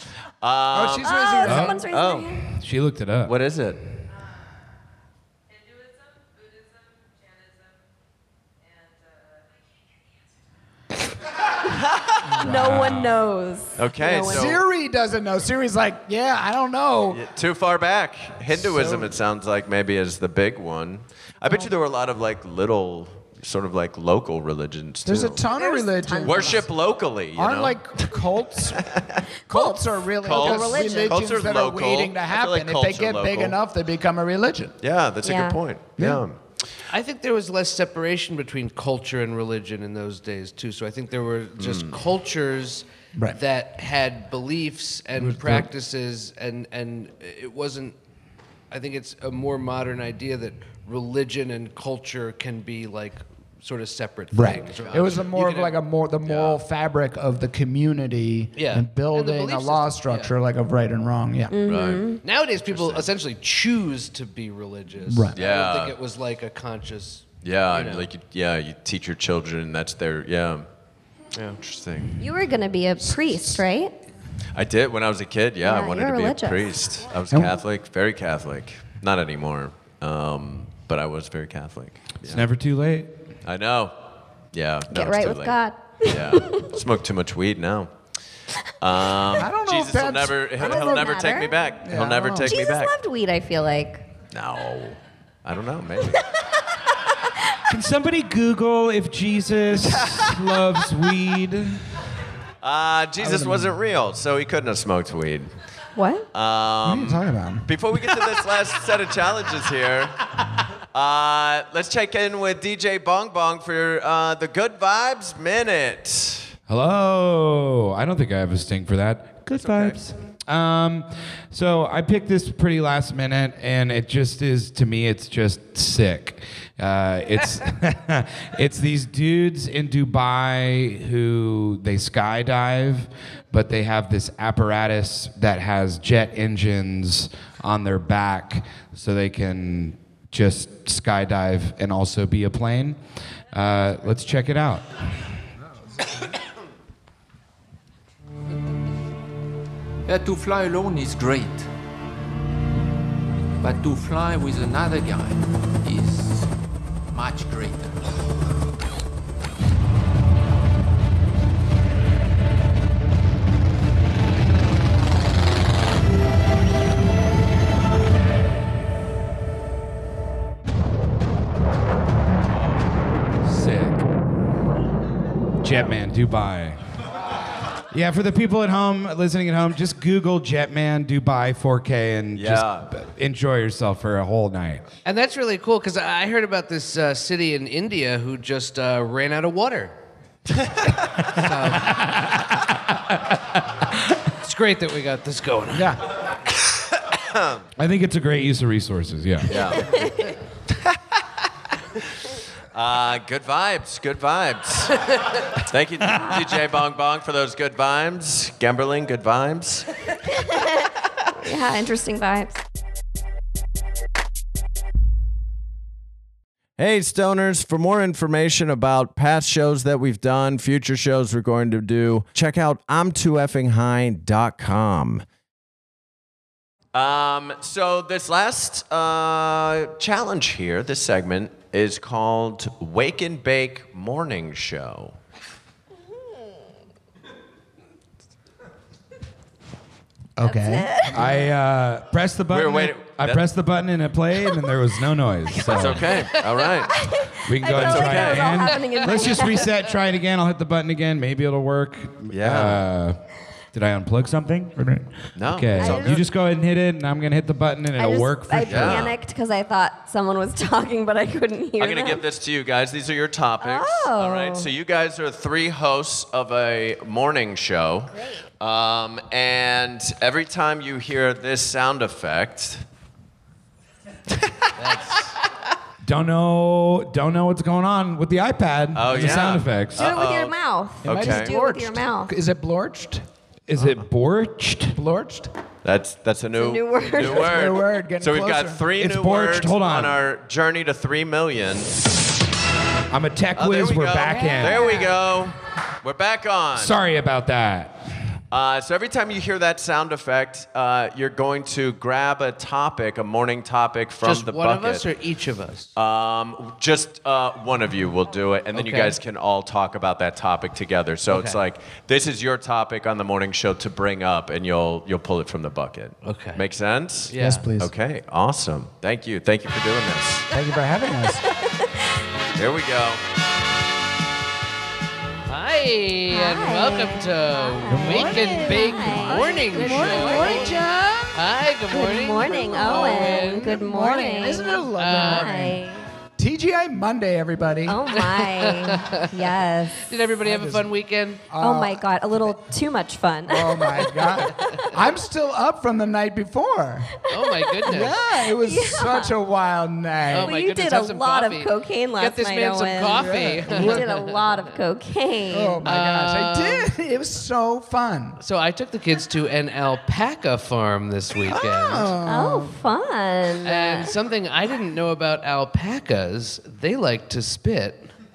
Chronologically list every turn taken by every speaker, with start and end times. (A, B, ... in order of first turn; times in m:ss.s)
0:00.4-0:01.1 A
0:00.7-0:01.8 B
0:01.0-0:02.4 C
0:01.4-0:01.8 D
0:01.7-0:02.4 A
0:02.5-0:03.3 D
0:03.2-0:03.8 A
0:12.4-0:13.2 D
0:12.4-0:14.5 C
0:13.8-0:14.6 A
0:14.2-0:17.2 B
0:17.1-0:25.4 A
0:18.5-0:19.1 B
0:25.0-0:26.7 B
0:25.5-0:26.6 C
0:26.2-0:29.2 A
0:27.4-0:28.9 B
0:29.5-0:31.2 C
0:29.5-0:34.7 B
0:30.2-0:33.6 A
0:34.8-0:36.4 A
0:35.2-0:35.6 C
0:36.0-0:36.2 B
0:36.9-0:48.0 E
0:41.6-0:42.0 A
0:45.2-0:45.7 B
0:48.7-0:55.8 E
0:54.3-1:01.7 B
0:58.6-1:00.3 E
1:01.5-1:02.2 C
1:01.7-1:02.1 A
1:02.2-1:08.1 E
1:02.7-1:03.1 A
1:05.1-1:05.4 B
1:05.4-1:06.0 A
1:07.4-1:10.7 A
1:11.6-1:12.2 A
1:12.2-1:13.9 C
1:14.5-1:22.4 A
1:15.6-1:16.7 C
1:22.2-1:23.1 D
1:23.4-1:23.9 A
1:24.5-1:27.9 A
1:24.9-1:26.7 C
1:28.8-1:32.9 A
1:29.4-1:30.4 B
1:30.6-1:31.5 C
1:31.8-1:32.5 B
1:32.4-1:34.0 C
1:34.3-1:36.3 A
1:37.7-1:41.8 D
1:39.8-1:40.4 A
1:42.6-1:45.5 A
1:43.2-1:43.8 B
1:46.0-1:46.2 C
1:46.3-1:50.2 A
1:46.8-1:48.0 B
1:50.9-1:56.5 A
1:56.7-2:23.0 D
1:59.6-2:00.0 A
2:23.5-2:25.3 D
2:30.0-2:31.7 F
2:33.6-2:36.5 F
2:37.1-2:38.0 F
2:52.5-2:52.8 A
2:53.4-2:54.0 D
2:55.6-2:56.8 D
2:57.9-3:04.8 D
3:02.3-3:02.9 A
3:05.0-3:10.0 E
3:11.3-3:12.0 E
3:11.9-3:12.9 D
3:14.4-3:16.0 E
3:15.7-3:16.0 B
3:17.2-3:17.6 A
3:17.8-3:20.0 D
3:19.5-3:20.3 A
3:22.7-3:29.9 A
3:30.3-3:32.6 C
3:36.8-3:45.2 A
3:46.9-3:55.1 A
4:00.4-4:01.4 B
4:00.4-4:01.1 C
4:01.1-4:06.2 D
4:02.5-4:03.4 A
4:05.7-4:07.0 A
4:05.7-4:06.3 C
4:06.9-4:09.7 C
4:07.4-4:13.2 D
4:07.8-4:09.2 E
4:07.8-4:08.1 A
4:12.3-4:12.8 A
4:13.7-4:19.1 D
4:15.4-4:16.2 A
4:15.8-4:16.2 C
4:18.0-4:22.2 C
4:18.7-4:19.2 A
4:21.8-4:32.8 A
4:23.6-4:24.7 C
4:28.1-4:28.4 C
4:34.8-4:35.4 E
4:36.0-4:40.1 D
4:38.9-4:41.5 A
4:40.0-4:42.3 C
4:41.0-4:43.2 B
4:43.7-4:45.0 D
4:44.9-4:45.5 B
4:45.8-4:51.9 A
4:46.5-4:47.5 C
4:47.1-4:48.8 B
4:49.0-4:50.2 D
4:53.1-4:55.0 D
4:53.5-4:56.9 A
4:54.3-4:55.2 C
4:56.7-4:58.0 D
4:58.5-5:05.0 A
5:04.2-5:05.9 E
5:06.0-5:20.5 A
5:08.7-5:09.2 E
5:11.3-5:11.6 E
5:16.2-5:16.6 E
5:17.3-5:17.7 E
5:17.3-5:17.9 B
5:20.5-5:21.5 B
5:21.6-5:22.1 C
5:22.5-5:23.2 A
5:25.5-5:30.8 E
5:26.3-5:30.7 C
5:27.9-5:31.4 B
5:31.3-5:33.8 E
5:31.9-5:36.0 C
5:32.4-5:35.8 B
5:34.6-5:35.7 E
5:36.4-5:38.1 B
5:37.8-5:40.2 C
5:38.2-5:41.4 E
5:40.4-5:40.9 B
5:41.5-5:42.5 B
5:41.6-5:44.9 C
5:43.5-5:47.2 B
5:47.3-5:48.2 E
5:47.5-5:49.3 C
5:47.8-5:50.6 B
5:50.3-5:54.7 E
5:50.3-5:55.8 C
5:53.0-5:54.2 B
5:55.5-5:58.4 B
5:55.8-5:56.9 E
5:58.4-6:02.1 E
6:01.4-6:02.8 B
6:02.2-6:04.1 C
6:03.6-6:08.1 E